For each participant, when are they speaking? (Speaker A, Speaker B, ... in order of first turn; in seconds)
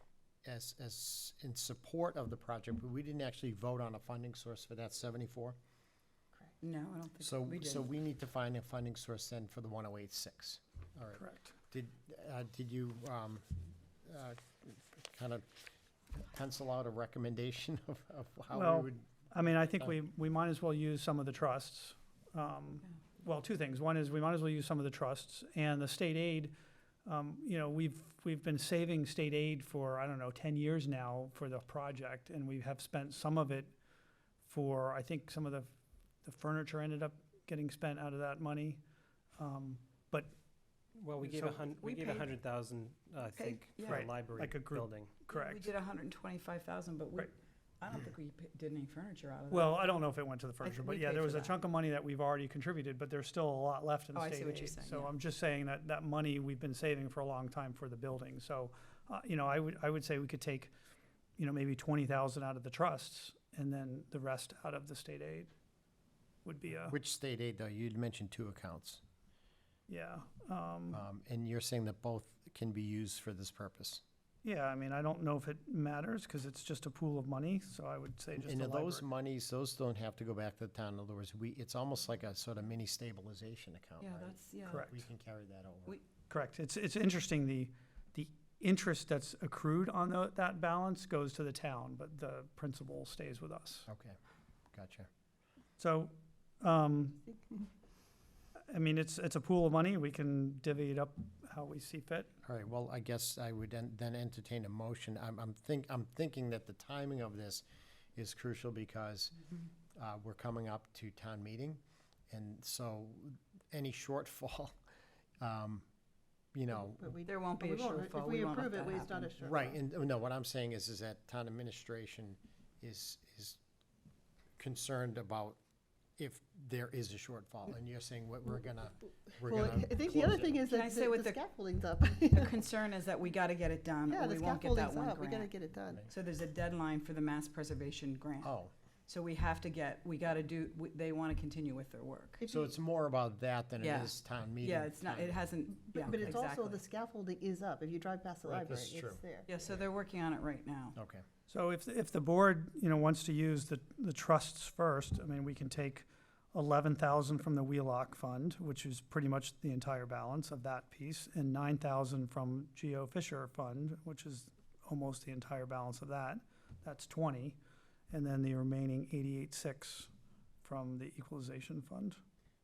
Speaker A: 0.4-5.6, 7.2-19.9, 66.9-69.0, 70.9-74.0, 78.4-86.0, 93.9-94.2, 94.7-95.1, 102.4-109.4, 109.9-114.7, 115.4-115.8, 116.5-117.1, 119.4-123.6, 124.6-125.6, 126.2-130.6, 138.4-138.7, 142.5-145.4, 148.4-149.2, 150.9-151.2
Speaker B: 6.6-7.9, 41.8-42.3, 43.3-44.2, 45.3-49.9, 50.6-51.5, 54.1-55.1, 84.0-84.9, 117.2-119.3, 130.7-131.4, 132.3-135.5, 136.1-138.5, 139.1-142.4, 143.8-146.8, 149.5-151.0
Speaker C: 11.2-11.6, 18.5-26.5, 27.0-33.7, 34.4-35.7, 36.2-38.8, 39.4-40.3, 41.2-41.7, 43.8-45.7, 49.5-60.7, 61.4-65.5, 66.4-67.0, 69.9-71.0, 74.4-79.0, 84.7-85.0, 86.3-93.9, 95.8-97.2, 98.7-102.3, 151.5-167.6, 168.1-170.1, 170.6-172.2
Speaker D: 40.9-45.2
Speaker E: 116.9-119.8, 129.4-132.7, 134.1-136.1, 142.4-142.7, 145.9-149.5